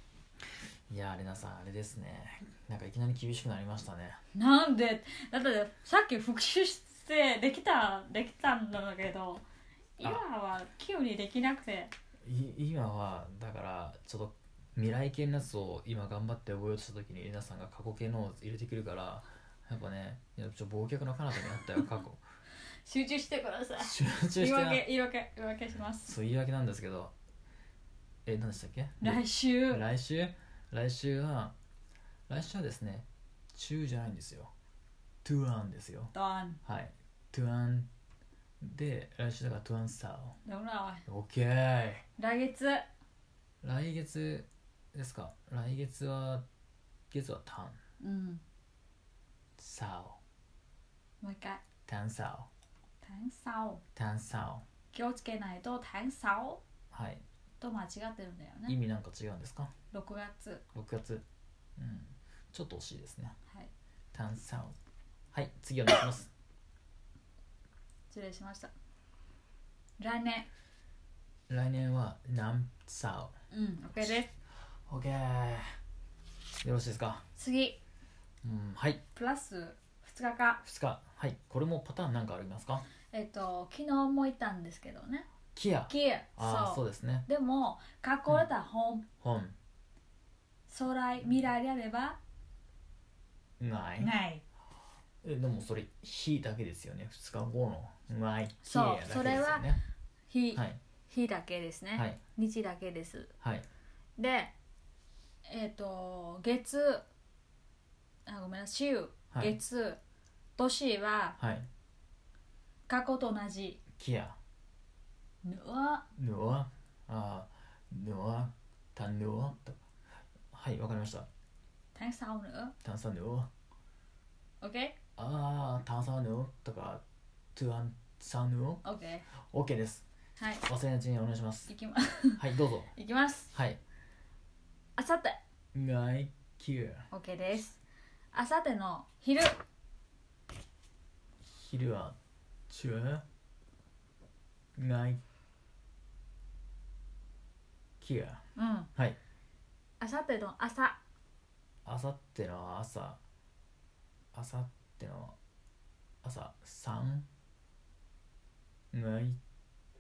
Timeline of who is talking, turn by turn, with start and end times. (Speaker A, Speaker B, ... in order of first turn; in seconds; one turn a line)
Speaker A: 0.9-4.2
Speaker B: 4.3-9.4
Speaker B: 10.0-11.9
Speaker A: 10.0-10.3
Speaker A: 12.2-22.2
Speaker B: 22.9-26.1
Speaker A: 23.8-24.8
Speaker A: 26.0-27.1
Speaker A: 28.2-31.5
Speaker B: 29.0-29.8
Speaker A: 32.3-34.5
Speaker A: 35.2-37.9
Speaker B: 36.1-36.6
Speaker A: 38.6-40.4
Speaker B: 40.5-41.0
Speaker A: 41.1-42.0
Speaker B: 42.2-42.9
Speaker A: 43.6-46.5
Speaker A: 47.1-47.8
Speaker B: 48.0-48.4
Speaker A: 49.6-50.2
Speaker B: 51.2-51.6
Speaker A: 51.9-52.5
Speaker B: 53.0-53.8
Speaker A: 54.0-54.6
Speaker B: 54.9-56.6
Speaker A: 56.9-57.2
Speaker B: 57.6-58.8
Speaker A: 58.7-59.7
Speaker B: 59.9-60.6
Speaker A: 60.7-61.2
Speaker A: 61.8-63.4
Speaker A: 64.1-64.8
Speaker A: 65.3-66.3
Speaker B: 68.1-68.7
Speaker B: 70.0-70.5
Speaker A: 71.5-73.3
Speaker B: 73.5-74.3
Speaker A: 74.9-75.7
Speaker A: 76.6-77.2
Speaker B: 77.3-77.8
Speaker A: 78.4-79.0
Speaker B: 79.2-80.6
Speaker A: 80.6-82.9
Speaker B: 83.1-85.3
Speaker A: 85.5-87.3
Speaker B: 85.9-89.1
Speaker A: 89.2-89.5
Speaker B: 90.7-92.2
Speaker A: 93.6-94.1
Speaker B: 94.0-94.4
Speaker A: 95.2-99.8
Speaker B: 98.6-99.8
Speaker B: 100.3-103.3
Speaker A: 100.5-100.8
Speaker A: 101.9-102.2
Speaker A: 103.4-103.7
Speaker B: 104.2-104.5
Speaker B: 105.5-107.0
Speaker B: 108.3-110.0
Speaker B: 110.6-111.4
Speaker A: 111.4-111.7
Speaker B: 112.9-113.8
Speaker A: 114.0-114.4
Speaker B: 115.4-116.0
Speaker A: 116.2-119.8
Speaker A: 120.5-121.3
Speaker B: 122.0-122.8
Speaker A: 122.8-123.5
Speaker B: 124.6-125.0
Speaker A: 125.2-127.0
Speaker A: 127.5-128.8
Speaker B: 128.8-129.3
Speaker A: 129.4-130.1
Speaker B: 130.4-130.7
Speaker A: 130.7-131.7
Speaker B: 131.7-133.5
Speaker A: 132.4-132.9
Speaker A: 133.5-133.8
Speaker B: 135.0-135.4
Speaker A: 135.7-137.1
Speaker B: 137.1-137.8
Speaker B: 138.3-139.6
Speaker A: 141.4-142.2
Speaker A: 142.7-143.2
Speaker A: 144.8-145.2
Speaker A: 148.0-148.4
Speaker B: 148.6-148.9
Speaker B: 150.0-151.0
Speaker A: 151.8-153.2
Speaker A: 154.3-155.4
Speaker A: 156.2-157.3
Speaker A: 158.9-159.4